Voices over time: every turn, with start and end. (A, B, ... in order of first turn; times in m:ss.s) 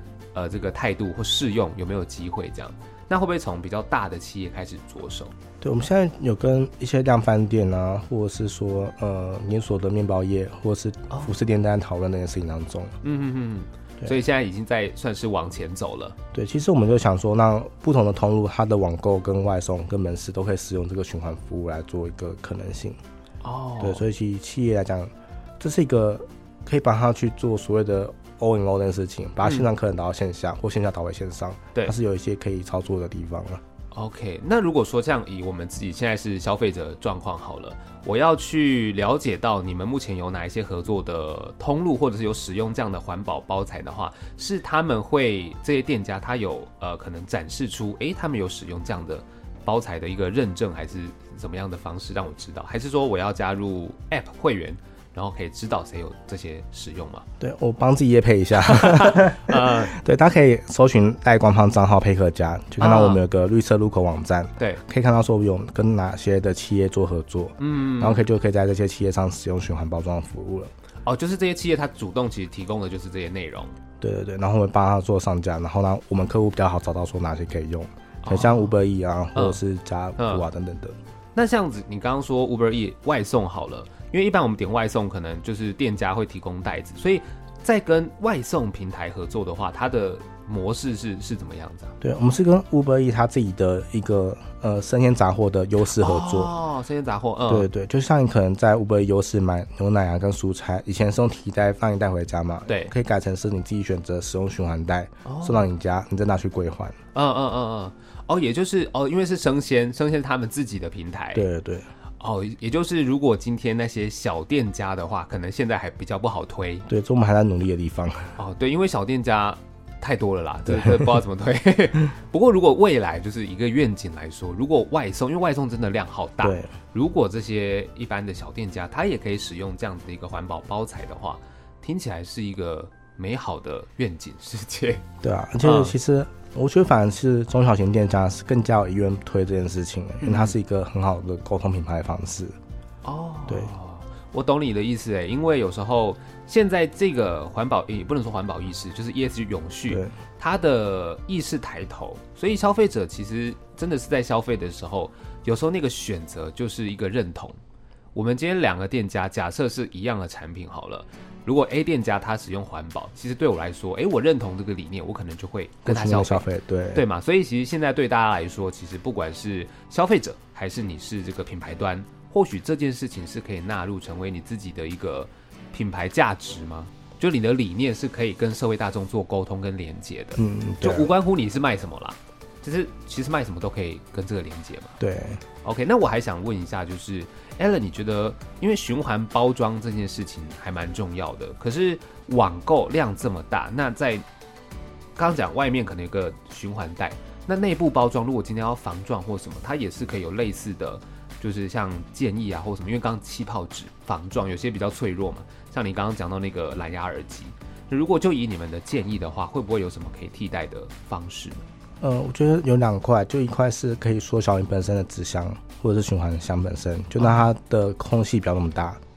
0:00.3-0:05.3 A
0:05.6-0:13.0 B
0:13.0-0:16.1 A
0:16.3-0:23.0 B
0:23.4-0:24.0 A
0:23.8-0:33.6 B
0:29.4-0:29.7 A
0:33.9-0:57.2 A
0:57.4-1:10.7 B
0:58.6-0:59.9 A
1:02.8-1:03.2 A
1:04.6-1:04.8 A
1:07.6-1:08.2 A
1:11.0-1:13.7 A
1:14.0-1:21.0 B
1:18.2-1:18.7 A
1:19.3-1:19.6 A
1:20.2-1:20.4 A
1:21.3-1:31.9 A
1:32.0-1:36.5 B
1:35.9-1:37.7 A
1:37.5-1:47.0 B
1:42.7-1:42.9 A
1:45.2-1:45.6 A
1:47.1-1:51.4 A
1:51.3-1:51.9 B
1:52.2-1:56.8 A
1:56.9-1:58.4 B
1:58.4-2:15.0 A
2:00.6-2:01.2 B
2:06.4-2:06.7 B
2:15.2-2:22.6 B
2:15.6-2:16.0 A
2:20.2-2:20.5 A
2:23.0-2:37.6 A
2:29.9-2:30.1 B
2:38.1-3:05.0 A
2:45.8-2:47.0 B
3:00.4-3:01.1 B
3:05.0-3:05.4 B
3:05.6-3:14.2 A
3:15.2-3:31.6 A
3:32.0-3:39.0 B
3:37.2-3:37.4 A